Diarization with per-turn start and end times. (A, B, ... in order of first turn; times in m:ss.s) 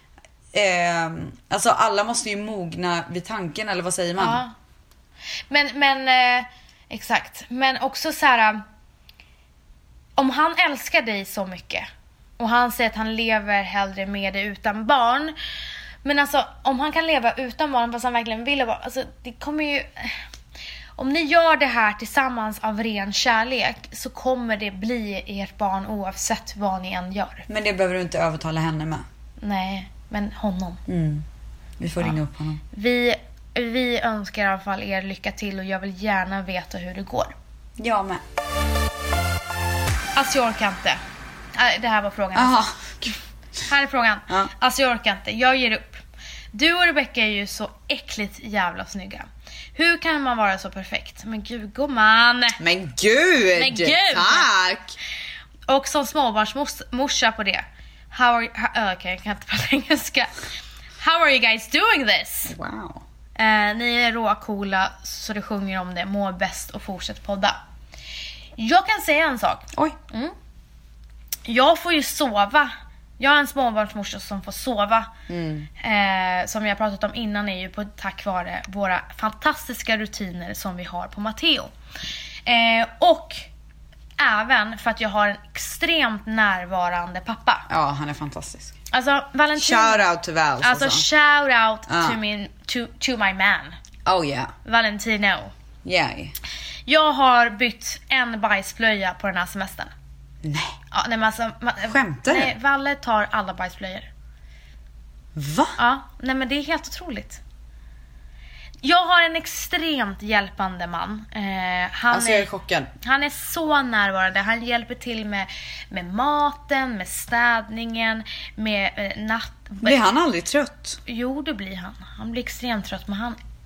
0:00.5-0:04.4 A
0:04.2-0:04.5 B
0:05.5-0:08.6 B
0:10.2-0:11.9 B
0:12.4-0:15.4 B
0:16.0-0:20.2 B
0:21.0-0:27.5 B
0:27.5-0:29.0 A
0:29.4-0:30.8 B
0:30.9-0:31.2 A
0:31.8-0:32.6 A
0:32.7-0:37.4 B
0:37.8-0:38.2 A
0:40.2-0:41.0 B
0:41.6-0:42.7 B
0:42.4-0:43.2 A
0:43.7-0:52.6 B
0:52.6-0:55.0 A
0:53.6-0:54.5 B
0:55.7-1:00.3 B
1:01.0-1:02.5 B
1:02.5-1:03.0 A
1:03.4-1:07.6 B
1:08.6-1:10.4 B
1:11.5-1:15.1 B
1:15.3-1:15.7 A
1:15.8-1:21.7 B
1:22.5-1:23.5 B
1:24.2-1:27.7 B
1:27.7-1:28.8 A
1:28.9-1:30.1 B
1:29.6-1:31.0 A
1:30.6-1:33.8 B
1:31.9-1:32.2 A
1:34.0-1:34.5 A
1:34.6-1:35.5 B
1:35.8-1:36.4 A
1:36.9-1:39.9 B
1:40.4-1:40.8 A
1:40.9-1:44.1 B
1:41.9-1:42.5 A
1:45.4-1:45.8 A
1:45.8-1:47.4 B
1:48.8-1:52.5 B
1:52.1-1:52.9 A
1:53.0-2:00.0 B
1:59.8-2:01.0 A
2:01.1-2:03.4 B